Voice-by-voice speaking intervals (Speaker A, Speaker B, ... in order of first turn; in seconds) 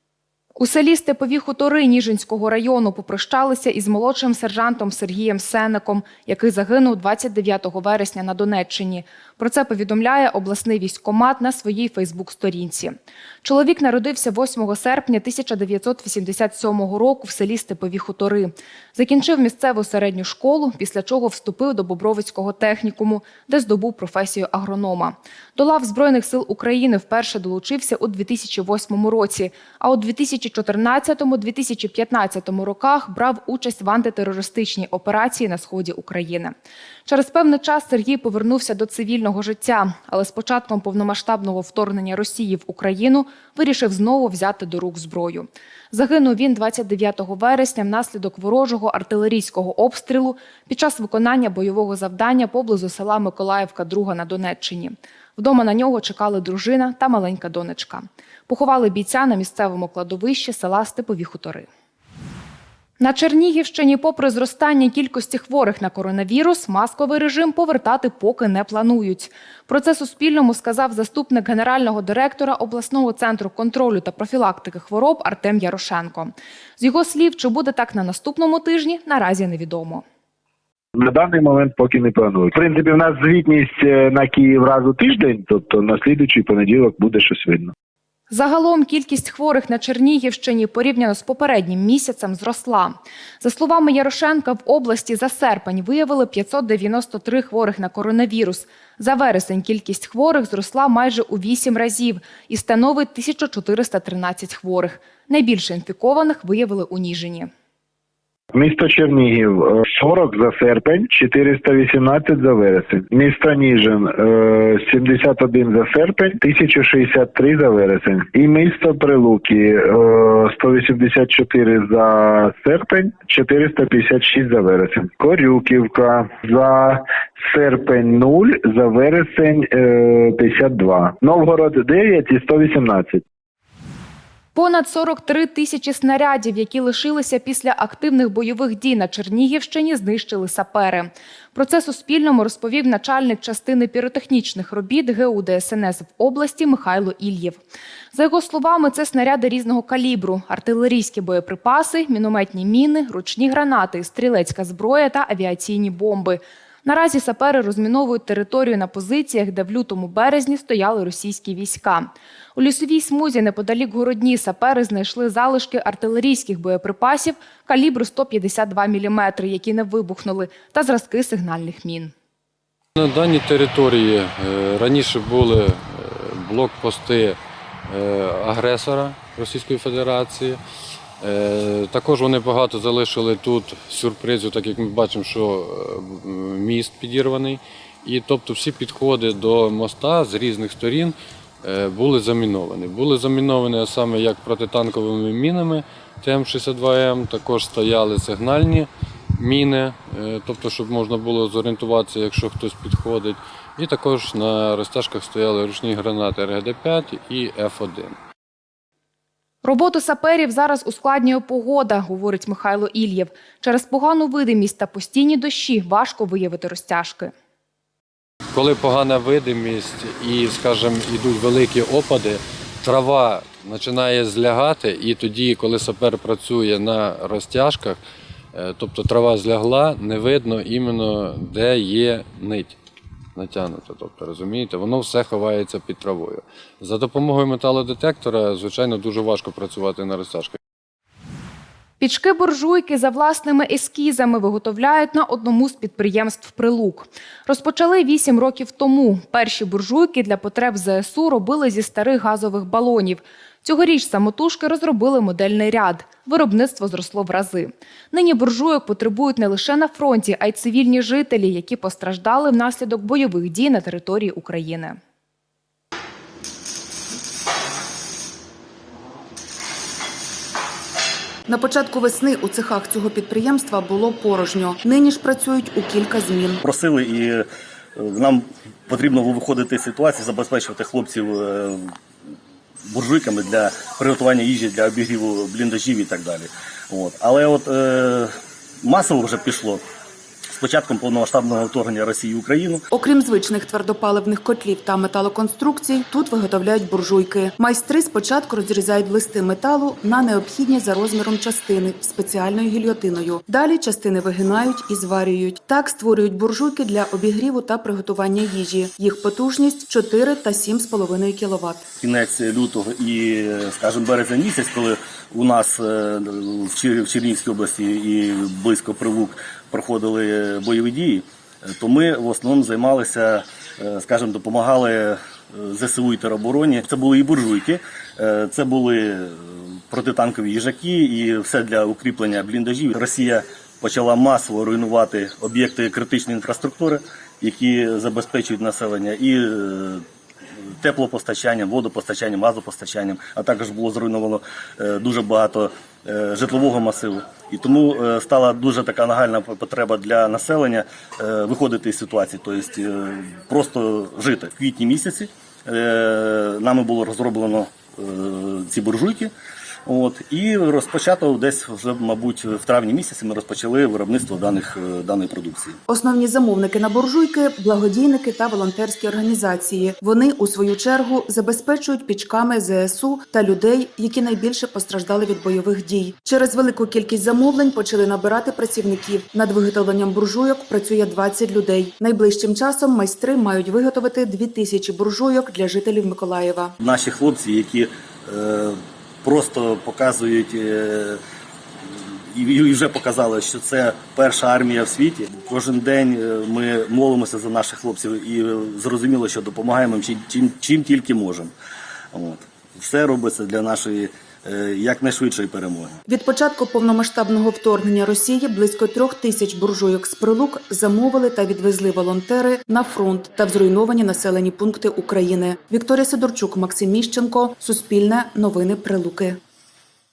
Speaker A: 0.6-36.5, 37.0-61.7, 63.0-80.0, 88.3-107.5, 134.5-147.6, 148.1-172.1, 209.6-217.3, 242.0-265.0
Speaker B: 81.0-87.7, 108.5-126.9, 127.5-133.2
Speaker C: 173.0-175.6, 176.5-177.3, 178.2-180.5, 181.2-185.7, 186.3-191.1, 191.7-198.9, 199.4-208.1, 218.6-228.0, 228.6-232.7, 233.4-240.5
Speaker D: 271.5-276.6, 292.9-311.8, 365.9-386.7, 406.1-419.4
Speaker E: 276.6-277.4, 278.0-281.9, 282.9-289.8, 290.5-292.8, 312.0-340.0, 340.8-359.3, 359.9-365.8, 386.8-391.2, 391.9-401.5, 402.1-406.0